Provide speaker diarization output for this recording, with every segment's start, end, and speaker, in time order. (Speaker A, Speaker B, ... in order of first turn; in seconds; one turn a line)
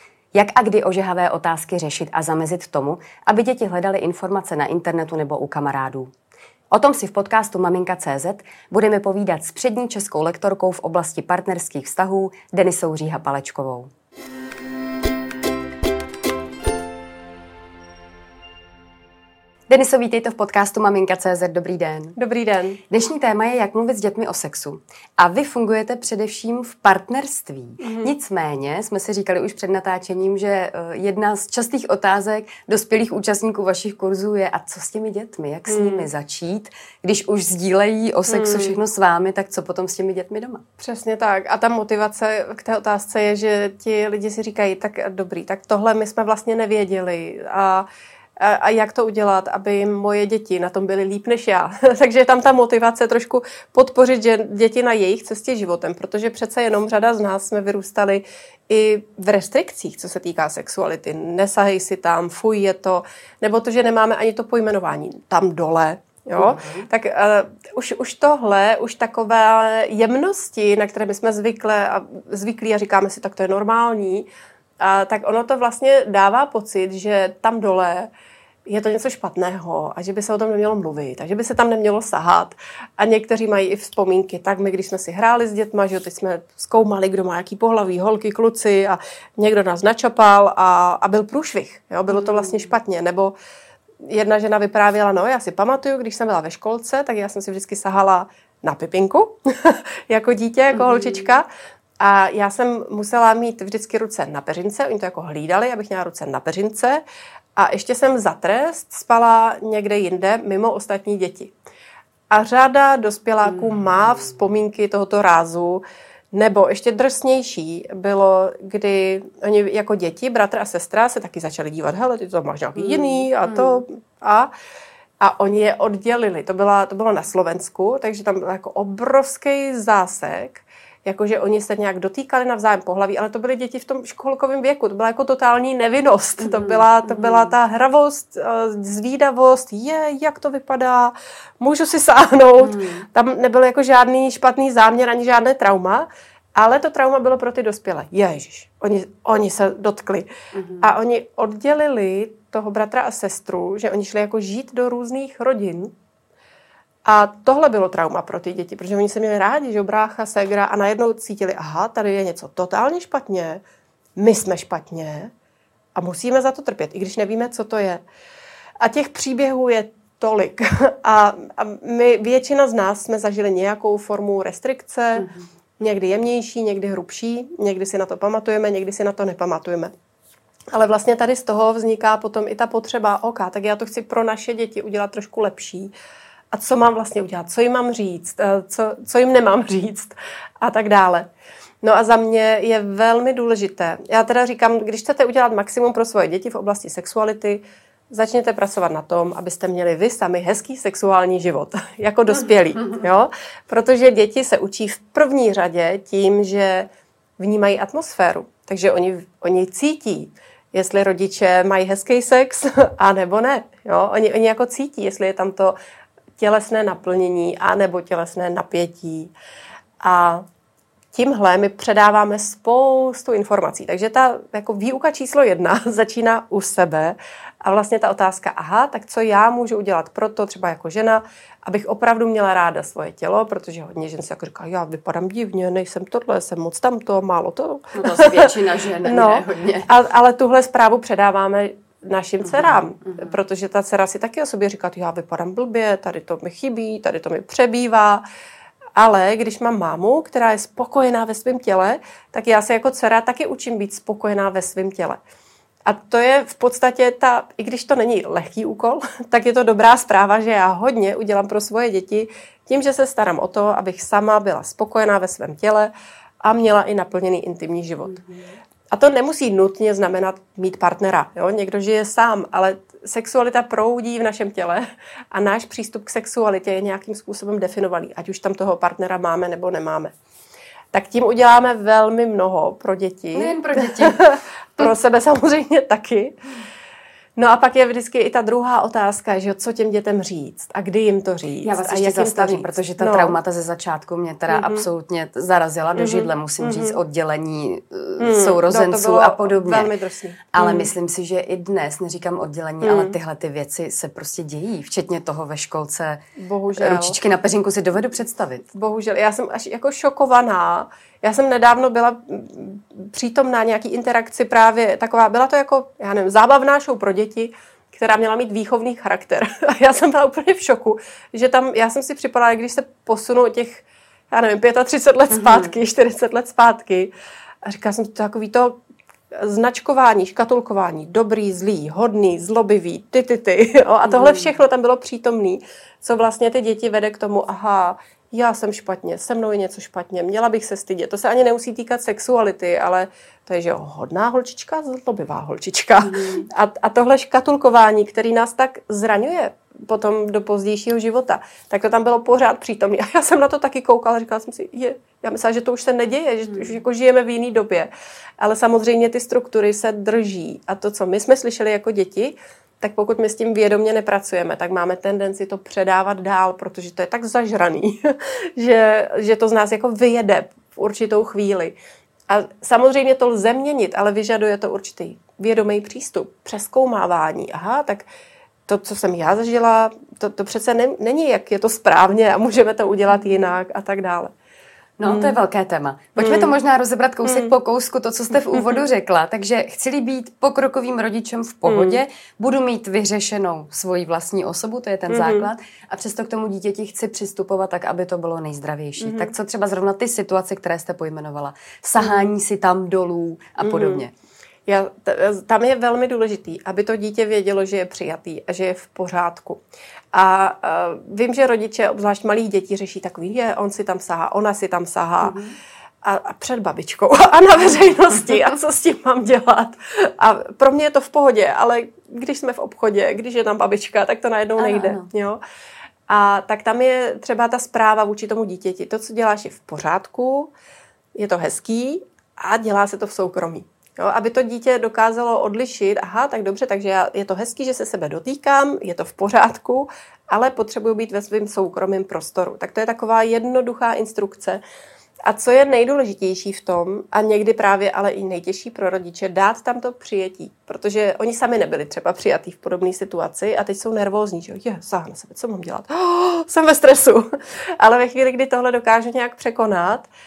Speaker A: 0.3-6.1
Speaker A: 6.7-13.9
Speaker A: 19.7-22.1
Speaker B: 22.2-22.8
Speaker A: 22.9-40.6
Speaker B: 27.8-28.1
Speaker B: 35.7-36.1
Speaker B: 38.3-38.8
Speaker B: 40.8-47.9
Speaker B: 48.4-74.3
Speaker A: 66.4-66.9
Speaker B: 74.8-78.1
Speaker B: 78.7-93.3
Speaker A: 92.1-92.7
Speaker B: 94.0-101.5
Speaker A: 100.7-101.3
Speaker B: 102.0-107.0
Speaker B: 107.6-111.5
Speaker B: 112.3-124.5
Speaker A: 122.8-123.8
Speaker B: 125.2-150.3
Speaker A: 136.4-137.5
Speaker A: 142.6-143.1
Speaker A: 150.5-150.9
Speaker B: 150.8-155.9
Speaker B: 157.1-163.6
Speaker B: 164.2-165.3
Speaker B: 165.9-168.0
Speaker B: 168.8-175.3
Speaker A: 175.2-175.5
Speaker B: 175.8-179.9
Speaker B: 180.7-185.9
Speaker B: 186.5-191.3
Speaker B: 191.8-206.9
Speaker B: 207.4-215.8
Speaker B: 216.4-219.3
Speaker B: 220.0-220.4
Speaker B: 221.1-238.5
Speaker A: 237.9-239.9
Speaker B: 239.0-248.2
Speaker A: 242.4-243.2
Speaker B: 248.9-255.2
Speaker B: 255.8-265.9
Speaker B: 266.4-268.2
Speaker A: 268.1-268.5
Speaker B: 268.9-280.1
Speaker B: 280.9-286.4
Speaker A: 283.3-284.2
Speaker B: 287.4-293.4
Speaker A: 291.6-299.9
Speaker B: 294.5-294.9
Speaker B: 295.9-297.0
Speaker B: 298.2-300.9
Speaker A: 300.5-306.2
Speaker B: 302.8-303.2
Speaker B: 306.4-307.2
Speaker A: 306.7-308.6
Speaker B: 308.7-327.1
Speaker A: 325.3-325.7
Speaker B: 327.6-328.8
Speaker B: 329.4-371.8
Speaker A: 334.1-334.5
Speaker A: 346.0-346.5
Speaker B: 372.3-378.1
Speaker B: 378.7-384.3
Speaker A: 385.0-404.1
Speaker B: 385.0-385.4
Speaker B: 386.2-386.6
Speaker B: 387.2-387.5
Speaker B: 388.4-388.8
Speaker B: 391.6-392.0
Speaker B: 395.1-395.5
Speaker B: 399.0-399.3
Speaker B: 402.0-402.3
Speaker B: 403.6-404.0
Speaker B: 404.7-415.4
Speaker A: 415.2-415.6
Speaker B: 416.0-425.4
Speaker A: 424.6-425.1
Speaker B: 426.1-430.5
Speaker B: 431.1-444.6
Speaker B: 445.2-457.3
Speaker B: 457.8-460.1